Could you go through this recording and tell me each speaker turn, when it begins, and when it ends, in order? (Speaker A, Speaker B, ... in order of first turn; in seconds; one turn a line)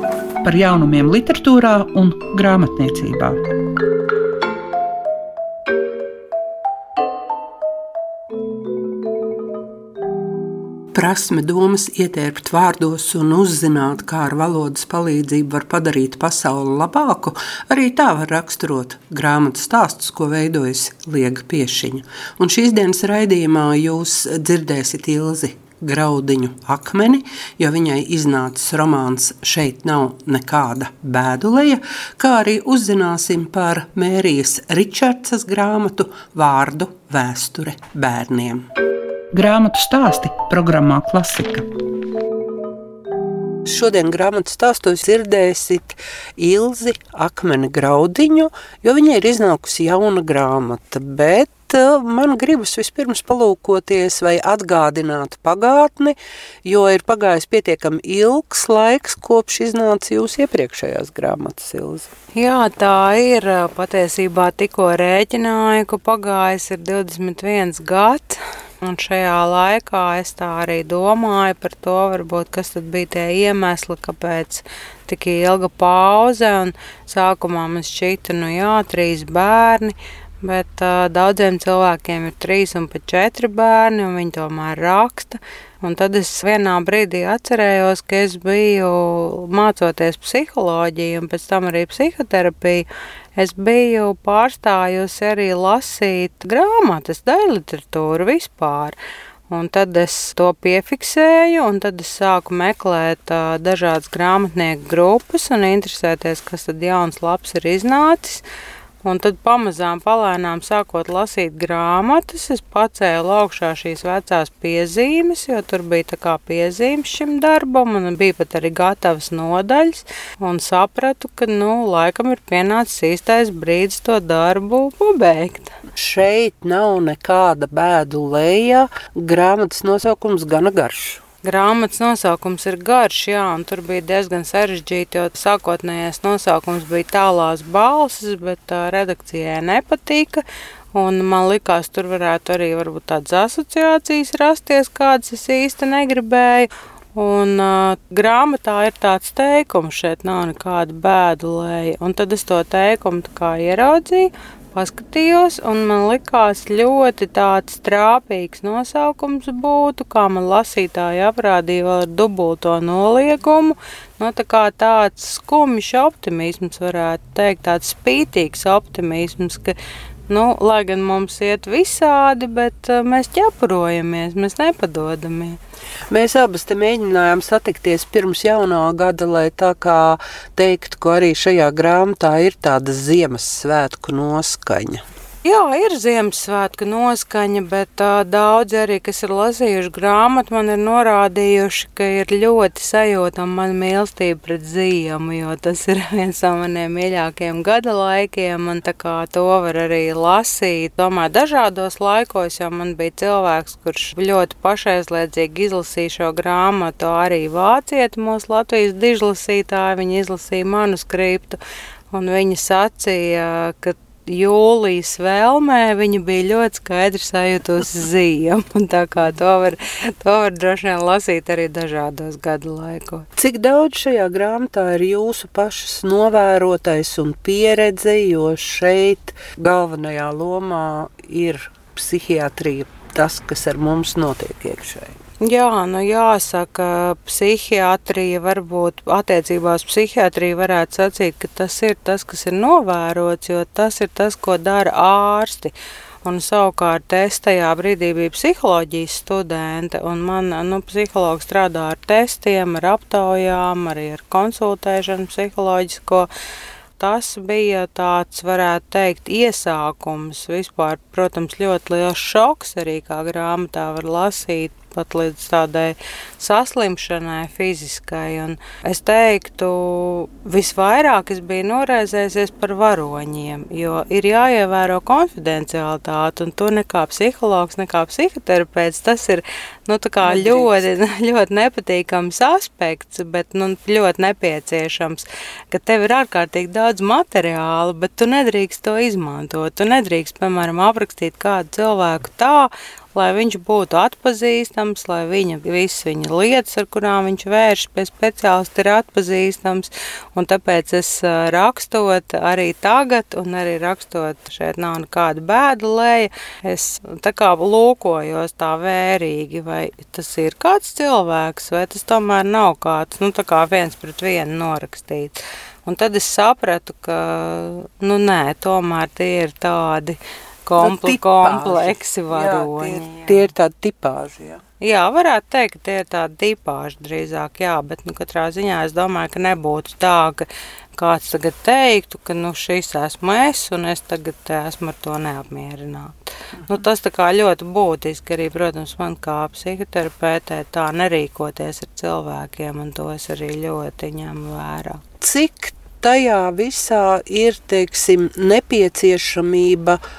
Speaker A: 0.4-3.4
Speaker B: 10.9-38.7
Speaker A: 39.3-41.7
Speaker B: 43.7-62.1
Speaker C: 62.3-99.0
Speaker C: 99.5-108.4
Speaker C: 109.0-125.7
Speaker B: 126.0-131.2
Speaker C: 131.4-169.8
Speaker C: 170.3-175.6
Speaker B: 176.1-185.0
Speaker C: 185.4-211.6
Speaker C: 212.1-223.3
Speaker B: 223.4-235.2
Speaker C: 235.4-256.3
Speaker C: 257.0-323.5
Speaker B: 280.2-280.8
Speaker B: 320.8-324.6
Speaker C: 324.8-345.0
Speaker B: 345.2-350.0